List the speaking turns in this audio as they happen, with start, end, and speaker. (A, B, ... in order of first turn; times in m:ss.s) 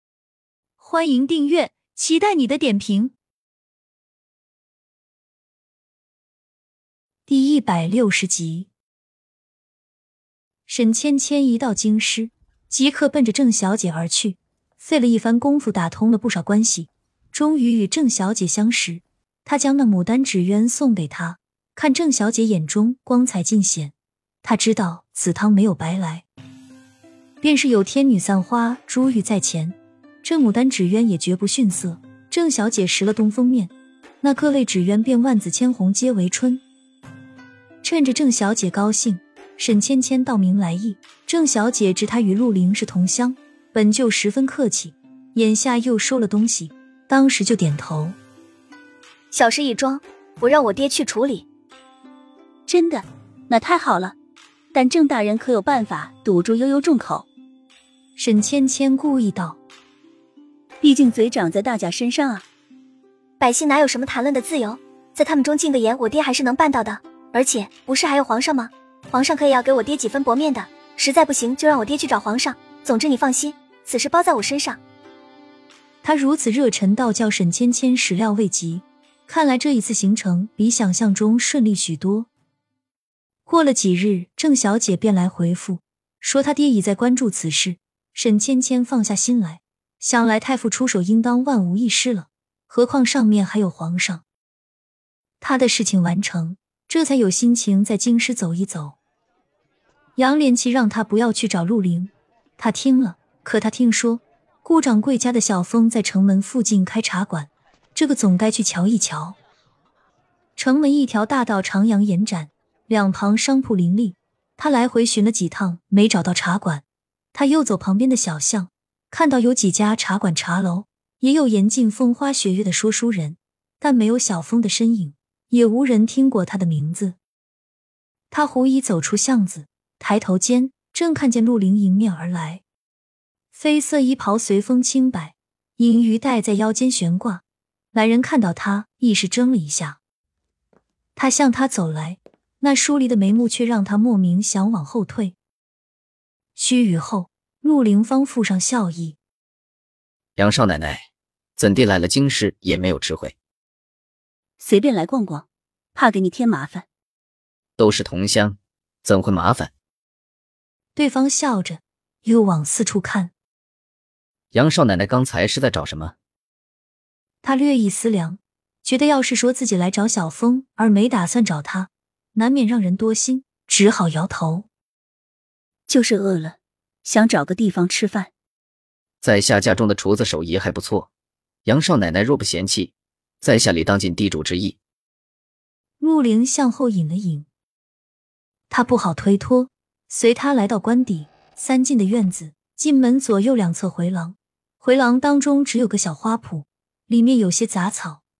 0:00.8-0:03.1 A
0:07.3-0:08.7 A
0:10.7-0:26.2 A
0:27.4-0:36.6 A
0:37.8-0:48.2 A
0:49.3-0:51.4 B
0:52.7-0:54.1 C
0:54.7-0:57.2 C
0:58.2-0:59.6 A
1:00.8-1:02.4 C
1:03.4-1:14.8 B
1:16.0-1:22.3 A
1:23.4-1:34.2 A
1:35.4-1:39.0 A
1:40.2-1:49.4 A
1:50.6-2:07.2 A
2:08.3-2:12.6 A
2:13.5-2:20.0 A
2:21.2-2:25.4 A
2:26.6-2:29.2 A
2:30.4-2:33.3 D
2:34.6-2:36.8 C
2:37.8-2:39.7 D
2:40.9-2:43.3 A
2:44.5-2:46.1 D
2:47.4-2:54.7 A
2:55.9-2:58.3 C
2:59.2-3:01.1 D
3:01.6-3:04.8 D
3:06.0-3:07.5 A
3:08.7-3:18.2 A